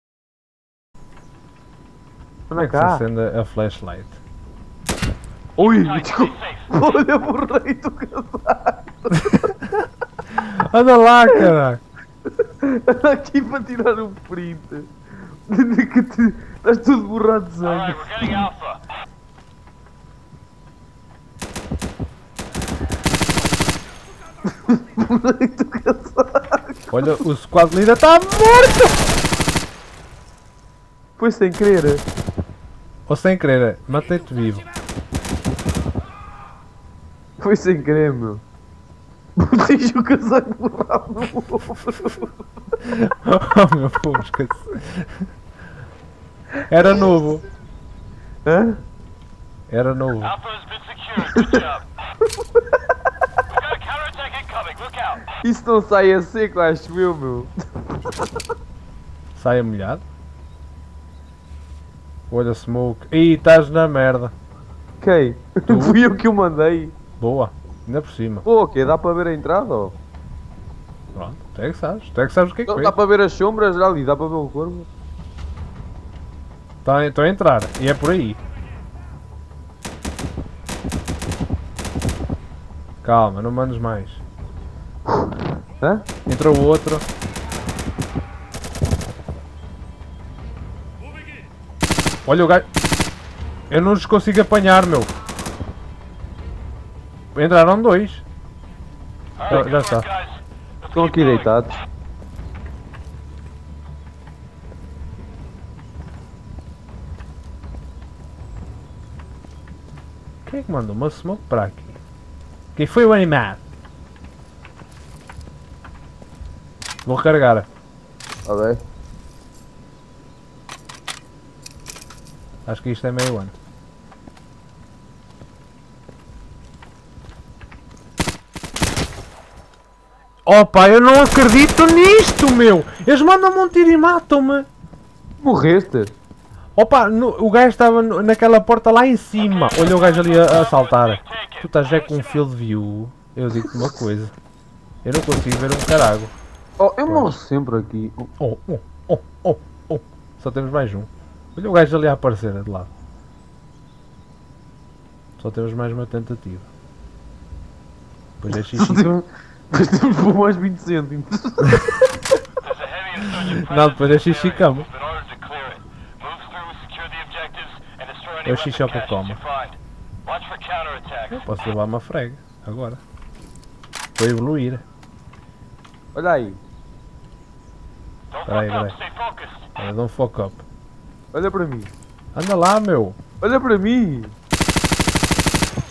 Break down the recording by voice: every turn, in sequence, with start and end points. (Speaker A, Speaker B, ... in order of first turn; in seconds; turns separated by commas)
Speaker A: 2.5-3.0, Speaker B: 2.5-4.2, Speaker A: 5.6-9.5, Speaker C: 5.7-6.6, Speaker B: 10.3-11.8, Speaker A: 12.4-14.9, Speaker A: 15.5-18.5, Speaker C: 17.6-18.8, Speaker A: 24.4-27.2, Speaker B: 26.9-29.1, Speaker A: 31.2-32.0, Speaker B: 33.1-34.7, Speaker A: 37.4-38.4, Speaker A: 39.4-42.4, Speaker B: 42.8-45.3, Speaker B: 46.7-47.4, Speaker A: 48.5-48.8, Speaker B: 49.7-50.4, Speaker C: 50.3-51.8, Speaker A: 51.2-51.7, Speaker C: 53.5-55.2, Speaker A: 55.3-58.2, Speaker B: 59.4-60.0, Speaker B: 62.3-64.3, Speaker A: 65.0-67.0, Speaker B: 65.7-66.0, Speaker B: 67.2-68.5, Speaker A: 68.5-70.0, Speaker B: 71.1-73.0, Speaker A: 72.7-74.9, Speaker B: 76.8-78.4, Speaker B: 83.0-84.2, Speaker A: 85.8-86.1, Speaker B: 86.3-87.1, Speaker B: 92.3-92.7, Speaker B: 93.7-95.1, Speaker B: 97.3-98.2, Speaker C: 99.4-100.3, Speaker B: 99.5-100.1, Speaker A: 100.9-101.8, Speaker C: 101.0-101.4, Speaker B: 110.5-112.0, Speaker B: 112.8-113.6, Speaker B: 117.0-117.7, Speaker A: 118.5-118.8, Speaker B: 122.7-123.5, Speaker B: 130.5-134.7, Speaker A: 135.4-136.1, Speaker B: 136.8-144.3, Speaker C: 139.6-141.6, Speaker B: 145.0-146.3, Speaker A: 146.8-148.3, Speaker B: 147.1-147.3, Speaker B: 148.4-152.9, Speaker B: 155.4-156.7, Speaker B: 158.4-159.1, Speaker A: 158.5-162.2, Speaker C: 162.6-171.4, Speaker B: 163.6-164.9, Speaker B: 168.4-169.4, Speaker B: 171.3-173.0, Speaker B: 174.2-174.8, Speaker A: 176.1-176.6, Speaker C: 178.3-179.7, Speaker B: 178.5-179.0, Speaker B: 179.8-180.6, Speaker A: 181.3-181.9, Speaker B: 182.3-183.2, Speaker A: 183.4-184.4